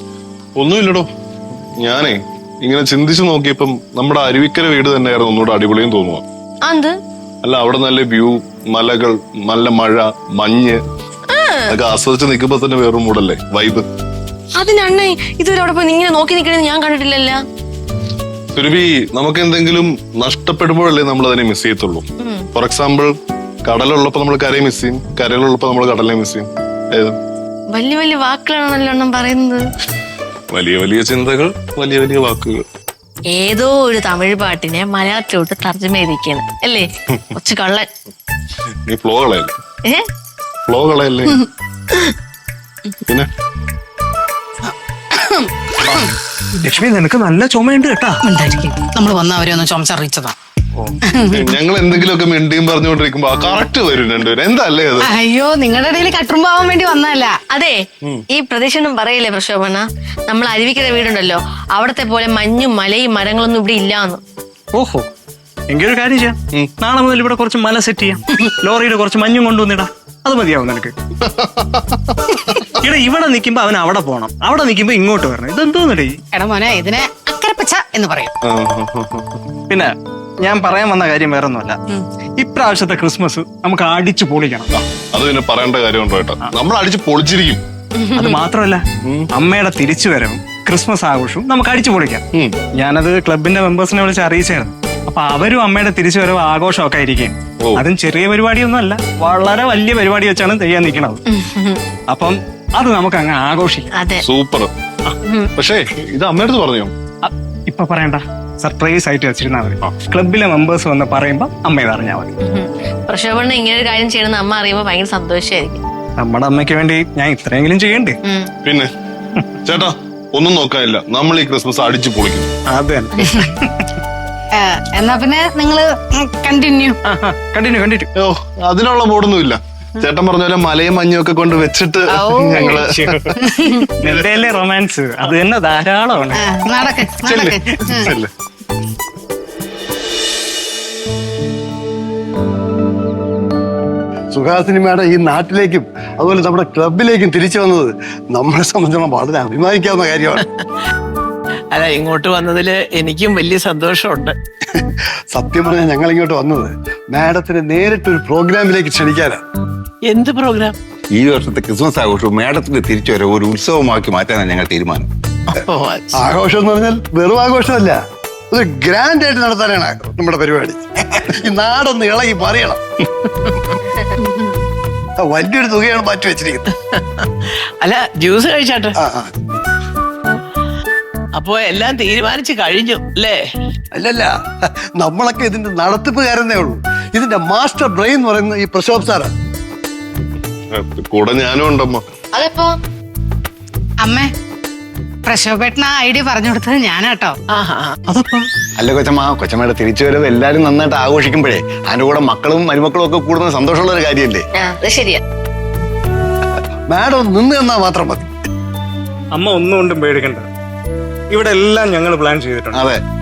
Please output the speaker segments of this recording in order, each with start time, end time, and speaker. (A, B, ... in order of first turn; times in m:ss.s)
0:00.6-0:01.1 A
0:01.8-0:06.2 A
0:06.6-0:07.0 B
0:07.4-0:10.8 A
0:11.3-0:11.8 B
0:11.7-0:13.9 A
0:14.6-0:17.4 B
0:18.5-0:23.1 A
0:22.2-0:22.5 B
0:23.6-0:27.2 A
0:27.7-0:29.6 B
0:30.5-0:32.6 A
0:33.3-0:37.9 B
0:38.9-0:39.5 A
0:40.7-0:41.4 A
0:45.1-0:45.5 B
0:46.6-0:48.2 C
0:48.2-0:50.3 D
0:51.1-0:51.5 D
0:51.3-0:55.1 A
0:55.0-0:57.4 D
0:57.5-1:04.2 B
1:04.7-1:05.0 C
1:05.7-1:10.9 C
1:11.2-1:12.7 A
1:12.8-1:16.2 C
1:16.3-1:18.3 D
1:18.4-1:19.4 A
1:20.4-1:21.8 C
1:22.4-1:24.7 C
1:24.7-1:27.6 A
1:28.1-1:32.2 C
1:29.0-1:29.3 A
1:32.8-1:41.2 C
1:41.3-1:41.8 B
1:42.1-1:43.9 C
1:43.9-1:44.2 B
1:44.2-1:44.7 A
1:45.2-1:45.5 B
1:45.6-1:46.9 A
1:47.2-1:52.3 C
1:52.4-1:55.8 B
1:56.2-1:58.2 C
1:58.2-1:58.5 B
1:58.6-1:58.9 A
1:59.6-2:02.5 A
2:02.7-2:03.9 C
2:04.5-2:07.0 D
2:07.1-2:08.1 C
2:08.2-2:13.4 A
2:12.1-2:12.8 D
2:12.3-2:13.3 C
2:13.4-2:13.9 D
2:14.0-2:18.1 C
2:16.4-2:18.1 D
2:17.9-2:18.3 A
2:24.3-2:30.4 E
2:31.7-2:34.3 F
2:34.7-2:39.4 E
2:40.1-2:40.7 F
2:41.1-2:45.1 G
2:45.5-2:46.1 F
2:46.2-2:48.0 E
2:48.5-2:53.7 E
2:55.2-2:56.6 E
2:56.9-2:58.9 F
2:59.0-2:59.3 E
3:01.4-3:03.4 F
3:03.9-3:09.3 E
3:10.7-3:12.0 A
3:12.3-3:12.7 B
3:14.0-3:14.3 D
3:15.3-3:17.4 D
3:17.5-3:18.0 F
3:18.1-3:18.4 C
3:18.8-3:24.4 G
3:24.6-3:25.2 B
3:26.9-3:28.3 E
3:29.3-3:30.4 C
3:31.3-3:32.8 C
3:32.7-3:33.0 G